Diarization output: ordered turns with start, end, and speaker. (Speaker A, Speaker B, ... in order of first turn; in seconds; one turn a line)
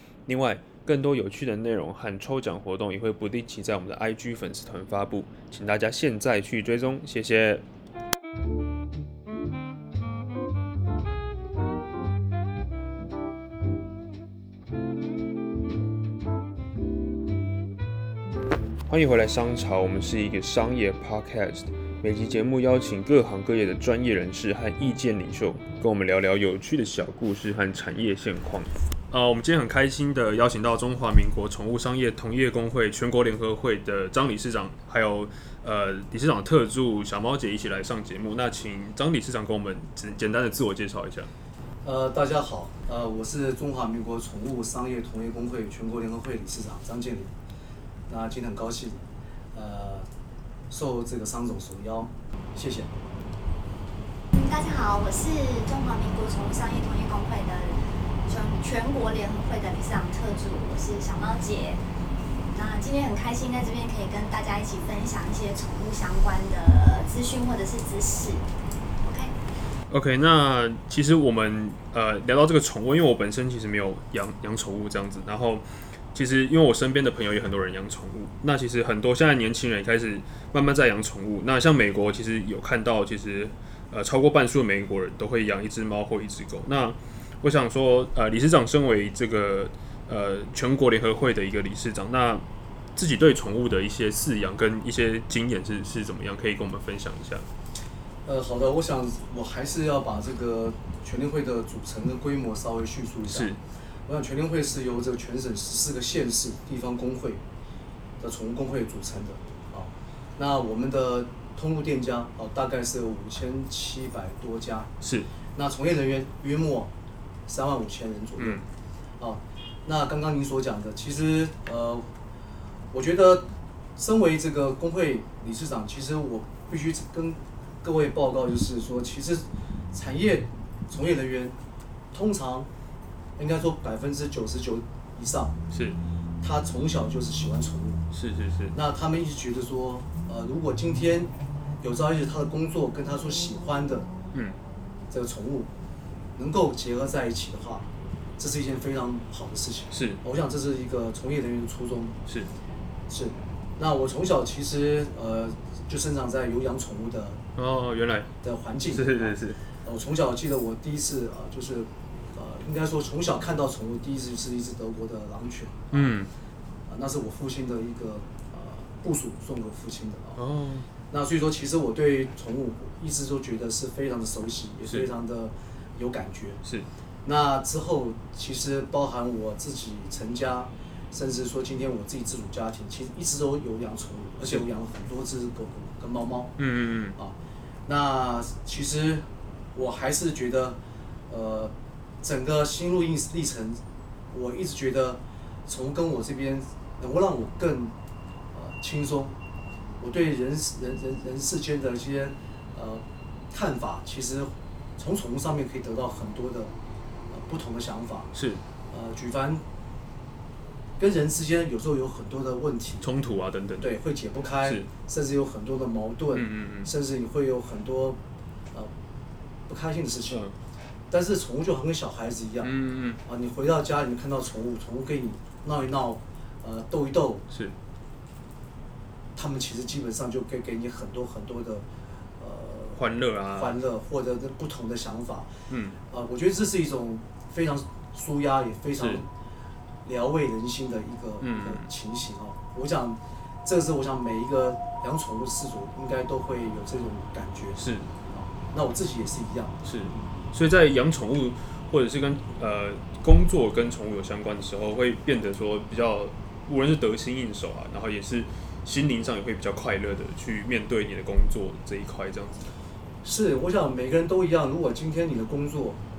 Speaker A: 0.3-7.6
Speaker A: 18.9-41.3
Speaker B: 41.8-47.3
Speaker B: 48.1-50.1
Speaker B: 50.7-52.9
Speaker C: 54.3-61.8
Speaker C: 62.5-68.5
Speaker C: 69.0-69.3
Speaker A: 69.9-92.4
Speaker A: 93.0-97.5
Speaker B: 98.2-107.4
Speaker A: 103.3-103.6
Speaker B: 108.2-114.9
Speaker A: 115.0-115.3
Speaker B: 115.5-116.9
Speaker B: 117.5-118.6
Speaker A: 118.4-118.7
Speaker B: 119.2-122.1
Speaker B: 122.9-131.6
Speaker B: 132.1-132.7
Speaker B: 133.4-135.6
Speaker A: 135.7-136.0
Speaker B: 136.4-138.0
Speaker A: 138.1-138.7
Speaker B: 138.7-144.1
Speaker B: 145.1-145.7
Speaker B: 146.4-147.9
Speaker B: 148.4-152.2
Speaker A: 149.9-150.2
Speaker B: 153.1-157.4
Speaker A: 157.6-158.3
Speaker B: 158.4-166.1
Speaker A: 158.9-159.6
Speaker A: 165.9-166.3
Speaker B: 166.9-170.4
Speaker A: 170.4-170.9
Speaker B: 171.1-176.6
Speaker B: 177.2-186.5
Speaker A: 186.6-187.2
Speaker B: 187.2-190.8
Speaker B: 191.3-193.8
Speaker B: 194.3-197.9
Speaker B: 198.5-199.3
Speaker B: 200.0-206.7
Speaker B: 207.3-208.3
Speaker A: 208.3-208.6
Speaker B: 208.9-209.6
Speaker B: 211.0-213.1
Speaker A: 213.0-214.0
Speaker B: 213.8-218.2
Speaker A: 216.3-216.9
Speaker B: 219.7-220.4
Speaker B: 221.1-222.7
Speaker A: 222.6-223.2
Speaker B: 223.2-227.4
Speaker B: 229.3-231.8
Speaker B: 232.4-233.0
Speaker A: 233.0-233.8
Speaker B: 233.6-235.5
Speaker A: 235.7-236.0
Speaker B: 236.1-239.3
Speaker A: 239.0-239.2
Speaker B: 240.1-249.8
Speaker A: 241.4-241.9
Speaker A: 247.8-248.1
Speaker A: 249.8-262.7
Speaker B: 263.2-266.0